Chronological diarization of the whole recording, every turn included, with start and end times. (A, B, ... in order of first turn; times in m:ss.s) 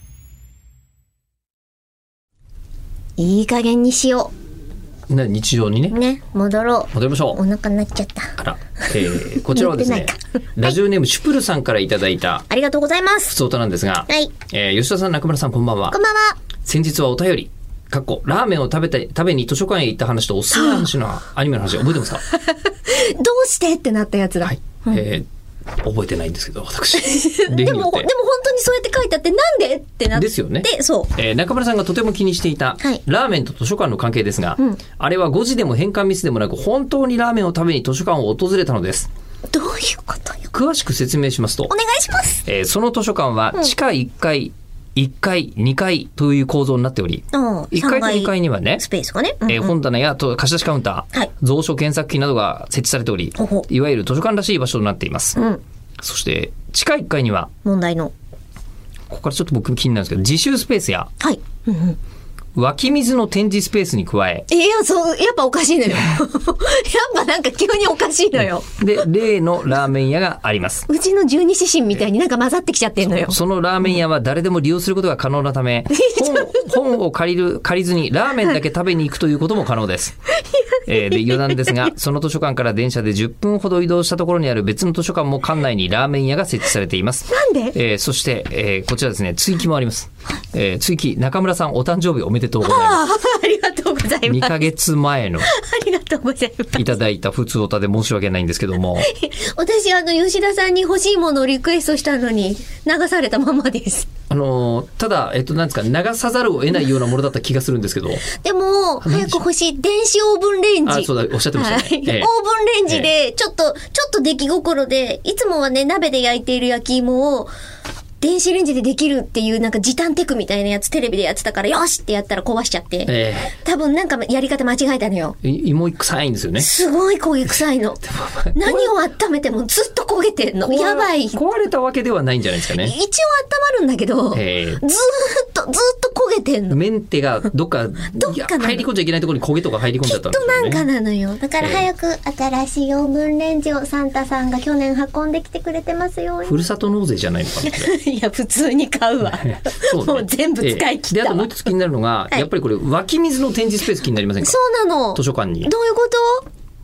0:03.2-0:04.3 A
0:05.1-0:05.9 B
0:05.9-0:08.3 A
0:06.9-0:07.4 B
0:08.4-0:12.4 B
0:09.5-0:10.8 A
0:12.5-0:13.4 A
0:13.3-0:16.0 B
0:14.1-0:14.3 A
0:15.9-0:16.4 A
0:16.6-0:22.2 B
0:20.5-0:20.9 A
0:22.5-0:25.0 A
0:24.4-0:25.2 B
0:25.8-0:28.1 B
0:27.0-0:31.1 A
0:30.1-0:39.1 B
0:39.5-0:40.5 A
0:40.5-0:41.7 B
0:41.7-0:42.4 A
0:42.4-0:48.8 B
0:47.3-0:49.8 A
0:49.4-0:55.4 B
0:53.4-0:53.6 A
0:55.4-0:55.6 A
0:56.0-0:57.5 B
0:57.6-0:58.1 A
0:59.1-1:01.1 B
1:01.2-1:02.0 A
1:02.5-1:04.4 B
1:04.5-1:08.7 A
1:08.8-1:10.8 B
1:10.9-1:13.4 A
1:13.0-1:20.1 B
1:15.9-1:16.6 A
1:20.3-1:21.9 A
1:20.8-1:33.0 B
1:27.3-1:27.8 A
1:32.6-1:34.7 A
1:34.2-1:35.5 B
1:35.4-1:37.0 A
1:36.8-1:39.1 B
1:39.0-1:44.1 A
1:44.3-1:48.3 B
1:48.3-1:57.5 A
1:49.0-1:49.4 B
1:50.8-1:52.3 B
1:58.2-2:05.4 A
2:03.1-2:03.5 B
2:05.4-2:06.7 B
2:06.6-2:08.0 A
2:08.0-2:08.9 B
2:08.5-2:11.4 A
2:10.6-2:12.9 B
2:12.7-2:16.8 A
2:14.3-2:14.8 B
2:16.7-2:20.8 B
2:18.2-2:18.9 A
2:20.0-2:26.7 A
2:21.6-2:21.9 B
2:26.5-2:27.9 B
2:27.6-2:31.5 A
2:29.5-2:34.6 B
2:34.4-2:36.4 A
2:35.1-2:35.7 B